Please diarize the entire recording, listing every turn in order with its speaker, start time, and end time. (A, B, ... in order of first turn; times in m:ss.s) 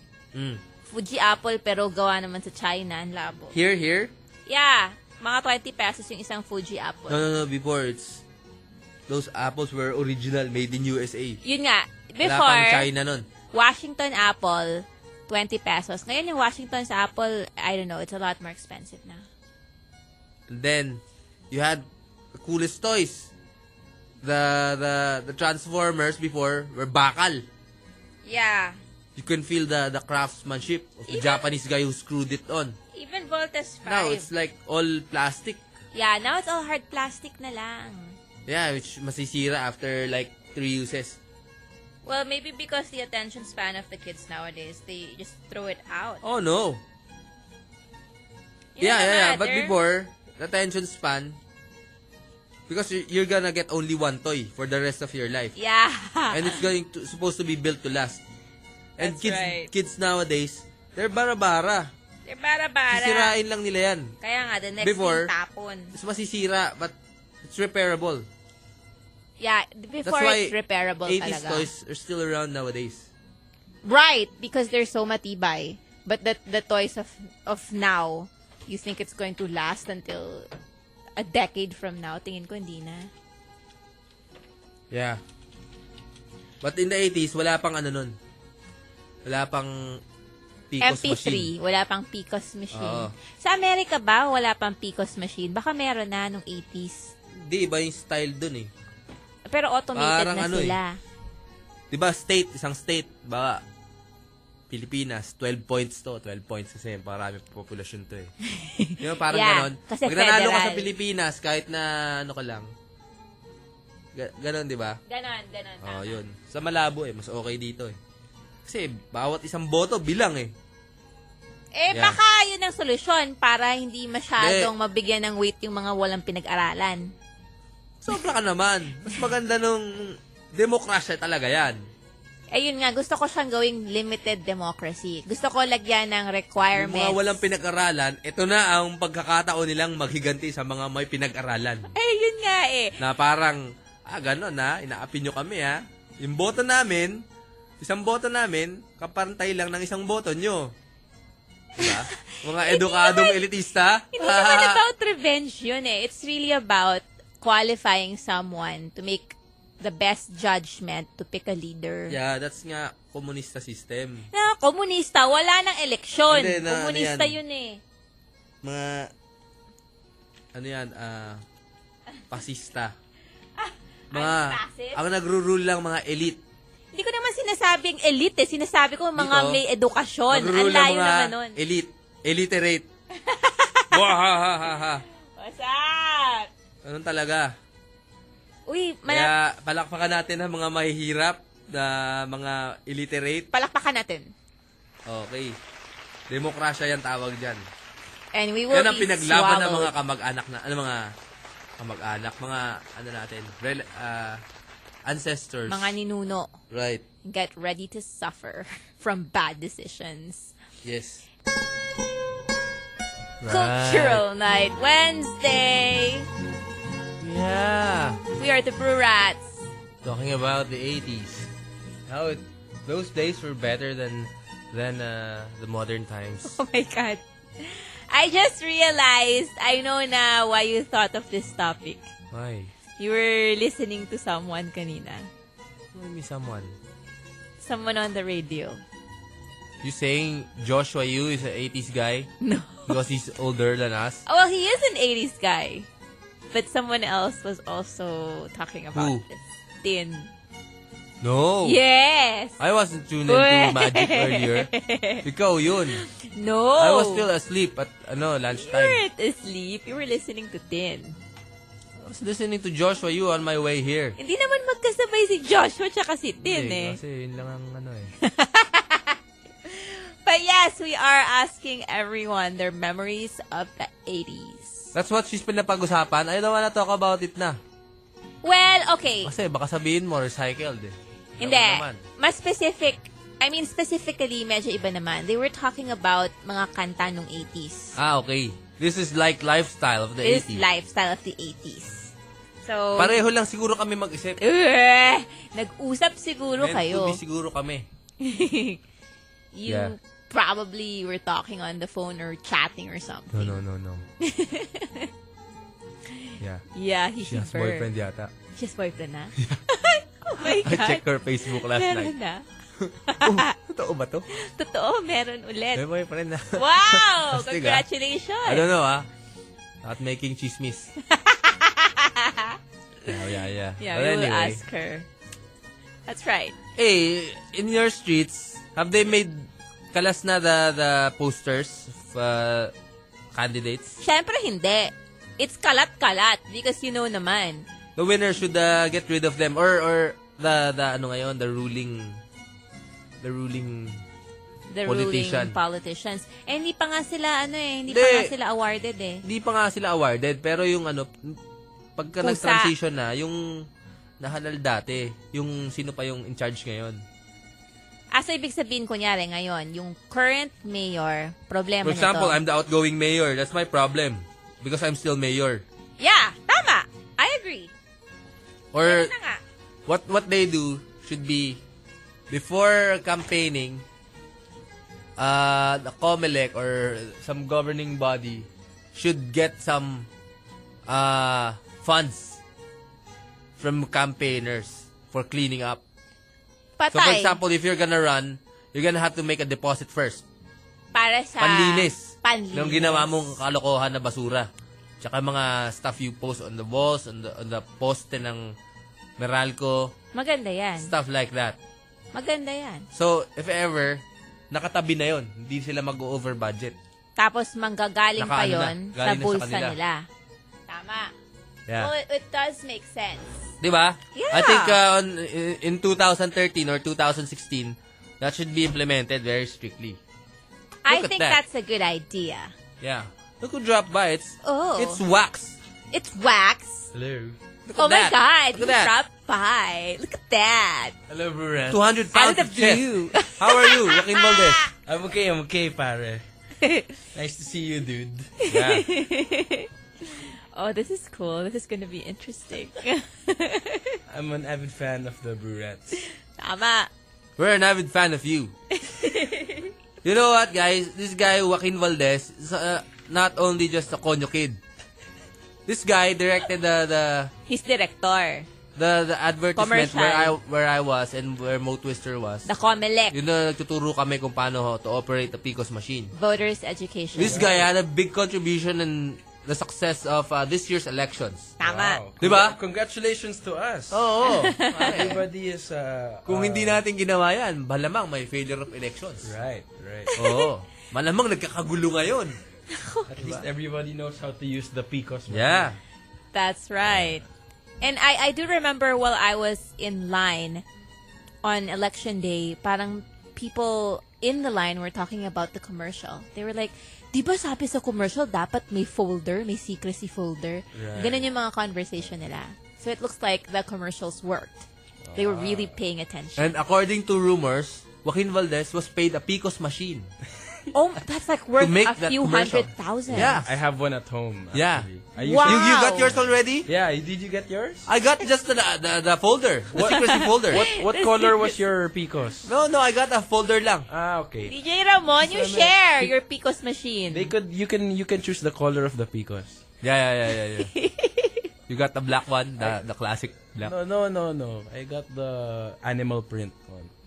0:00.3-0:00.6 A
0:00.9-0:03.5 B
0:03.5-0:04.1 A
0:04.5-0:07.2 B
0:07.1-0:08.2 A
0:09.1-0:11.4 A
0:11.4-0:12.9 B
0:12.2-0:13.2 A
0:13.5-0:19.2 B
0:20.5-0:23.3 A
0:24.2-0:27.4 A
0:28.2-0:28.8 B
0:29.2-0:32.8 A
0:31.1-0:31.5 B
0:32.9-0:34.3 B
0:33.8-0:35.6 A
0:35.9-0:38.2 B
0:38.5-0:41.2 A
0:42.0-0:46.2 B
0:46.2-0:46.8 A
0:48.8-0:49.7 B
0:48.8-0:51.4 A
0:52.7-0:55.5 A
0:55.6-0:56.6 B
0:56.3-0:58.2 A
0:59.0-1:01.9 A
0:59.0-0:59.7 B
1:02.2-1:03.3 B
1:02.9-1:04.1 A
1:04.2-1:05.9 B
1:04.8-1:05.3 A
1:05.9-1:08.2 A
1:09.4-1:11.7 B
1:10.0-1:13.1 A
1:13.8-1:20.5 B
1:21.2-1:23.1 B
1:24.9-1:25.2 A
1:26.6-1:28.1 A
1:29.2-1:30.0 A
1:30.7-1:31.5 A
1:30.8-1:37.1 B
1:32.7-1:33.1 A
1:37.4-1:38.7 A
1:39.5-1:41.0 B
1:39.9-1:40.8 A
1:41.9-1:43.6 A
1:44.7-1:48.3 A
1:48.5-1:50.9 B
1:49.0-1:52.7 A
1:54.1-1:55.0 A
1:55.1-1:56.2 B
1:55.8-1:58.0 A
1:58.6-2:00.5 A
2:01.7-2:07.1 B
2:01.9-2:02.2 A
2:04.4-2:04.7 A
2:08.0-2:11.8 A
2:12.5-2:17.4 B
2:16.7-2:21.9 A
2:21.9-2:23.0 B
2:23.0-2:27.2 A
2:27.8-2:30.7 A
2:31.8-2:34.8 A
2:31.8-2:33.4 B
2:34.1-2:42.1 B
2:42.1-2:44.3 A
2:44.3-2:47.8 B
2:46.3-2:47.4 A
2:48.6-2:49.1 A
2:50.5-2:51.4 A
2:52.3-2:52.9 A
2:53.6-2:55.0 B
2:54.1-2:56.4 A
2:56.9-3:01.6 B
2:59.2-2:59.6 A
3:00.3-3:02.8 A
3:03.1-3:04.1 B
3:03.9-3:05.0 A
3:05.4-3:06.5 B
3:06.8-3:07.5 A
3:08.7-3:09.3 B
3:09.1-3:13.5 A
3:13.5-3:14.3 B
3:15.1-3:15.6 A
3:16.3-3:17.6 A
3:18.3-3:19.9 B
3:18.7-3:21.1 A
3:21.8-3:24.4 A
3:25.0-3:25.9 A
3:25.7-3:26.5 B
3:26.7-3:27.0 A
3:27.2-3:30.5 B
3:30.8-3:31.2 A
3:33.4-3:34.2 A
3:33.5-3:36.3 B
3:37.2-3:38.2 A
3:38.4-3:39.6 B
3:40.0-3:41.5 A
3:42.1-3:46.6 A
3:46.4-3:52.0 B
3:52.3-3:52.7 A
3:53.0-3:55.3 B
3:55.9-3:56.7 A
3:57.6-3:58.8 B
3:59.8-4:02.3 A
4:02.4-4:03.0 B
4:02.9-4:04.2 A
4:04.3-4:05.9 B
4:06.5-4:10.3 B
4:08.9-4:09.2 A
4:11.2-4:11.8 A
4:11.6-4:12.6 B
4:12.6-4:14.7 A
4:13.2-4:15.2 B
4:15.2-4:16.0 A
4:15.9-4:17.3 B
4:16.8-4:19.0 A
4:18.5-4:21.2 B
4:22.0-4:24.2 A
4:24.2-4:27.0 B
4:26.4-4:28.1 A
4:28.2-4:34.9 B
4:34.9-4:37.6 A
4:38.4-4:39.3 B
4:39.2-4:42.0 A
4:41.4-4:48.0 B
4:48.0-4:50.6 A
4:50.2-4:52.1 B
4:52.6-4:53.2 B
4:53.0-4:54.4 A
4:54.4-4:57.2 B
4:56.6-4:57.8 A
4:58.2-4:58.8 B
4:59.5-5:03.6 B
4:59.6-4:59.9 A
5:03.3-5:04.0 A
5:04.2-5:05.1 B
5:06.1-5:07.9 B
5:07.2-5:08.3 A
5:08.5-5:12.4 B
5:10.4-5:12.1 A
5:12.8-5:14.3 A
5:13.0-5:13.5 B
5:14.3-5:15.8 B
5:15.7-5:17.8 A
5:16.5-5:18.7 B
5:18.4-5:19.1 A
5:19.8-5:20.9 A
5:21.0-5:23.2 B
5:23.0-5:24.6 A
5:23.8-5:25.0 B
5:26.1-5:26.5 B
5:26.8-5:32.7 A
5:33.3-5:34.0 A
5:34.0-5:37.6 B
5:38.0-5:42.2 A
5:43.2-5:44.0 A
5:44.7-5:49.2 B
5:44.8-5:45.6 A
5:47.9-5:48.3 A
5:49.2-5:51.4 A
5:52.0-5:53.4 A
5:52.2-5:52.7 B
5:54.2-5:57.0 A
5:58.1-6:02.4 B
6:01.8-6:05.6 A
6:06.0-6:07.7 B
6:08.7-6:09.1 A
6:08.8-6:09.4 B
6:09.9-6:11.6 A
6:12.3-6:13.8 A
6:15.2-6:20.1 A
6:20.9-6:22.4 A
6:23.6-6:25.8 A
6:26.8-6:27.4 B
6:26.9-6:30.2 A
6:30.9-6:33.2 B
6:31.4-6:34.5 A
6:35.0-6:38.5 A
6:39.2-6:39.9 A
6:40.1-6:40.9 B
6:40.8-6:41.6 A
6:42.1-6:42.9 B
6:42.9-6:46.7 A
6:47.2-6:50.1 B
6:48.2-6:49.8 A
6:50.7-6:51.1 B
6:51.7-6:51.9 A
6:51.8-6:53.5 B
6:53.6-7:00.0 A
6:54.1-6:54.8 B
7:00.8-7:02.5 B
7:00.8-7:01.4 A
7:02.8-7:05.6 A
7:04.4-7:05.0 B
7:05.9-7:06.9 B
7:06.9-7:07.4 C
7:07.6-7:08.9 A
7:07.8-7:10.9 B
7:11.1-7:11.8 C
7:11.7-7:14.7 A
7:12.1-7:14.7 B
7:14.8-7:16.2 C
7:16.6-7:17.0 B
7:17.1-7:18.4 C
7:18.4-7:24.0 B
7:18.5-7:18.8 A
7:24.1-7:26.0 C
7:25.9-7:26.9 B
7:27.4-7:28.5 A
7:28.7-7:29.7 B
7:30.0-7:34.6 A
7:35.7-7:37.3 A
7:37.5-7:38.5 B
7:38.8-7:42.5 A
7:39.6-7:40.4 B
7:42.4-7:43.2 B
7:43.1-7:46.1 A
7:46.1-7:47.5 B
7:47.1-7:51.6 A
7:47.2-7:47.7 C
7:51.6-7:52.0 B
7:51.6-7:54.1 C
7:52.2-7:52.6 A
7:53.9-7:55.2 A
7:54.2-7:55.1 B
7:54.8-7:56.8 C
7:56.2-7:59.3 A
7:59.2-8:00.1 C
8:00.1-8:02.4 A
8:00.2-8:00.5 B
8:02.7-8:03.1 B
8:03.0-8:05.8 C
8:05.3-8:05.8 A
8:06.3-8:07.2 B
8:06.8-8:07.2 C
8:07.8-8:10.6 B
8:11.4-8:24.6 B
8:20.7-8:21.3 C
8:25.0-8:25.8 C
8:25.2-8:26.5 B
8:26.4-8:30.1 A
8:30.7-8:33.4 B
8:31.6-8:33.5 A
8:33.1-8:37.9 C
8:34.5-8:34.9 A
8:35.2-8:36.2 B
8:35.4-8:36.7 A
8:37.9-8:40.7 A
8:39.7-8:42.5 C
8:39.9-8:41.6 B
8:42.4-8:43.9 A
8:43.9-8:44.5 C
8:44.5-8:47.3 B
8:45.2-8:46.1 C
8:47.1-8:49.6 C
8:49.8-8:50.7 A
8:50.6-8:51.5 B
8:51.7-8:53.7 A
8:53.5-8:56.9 C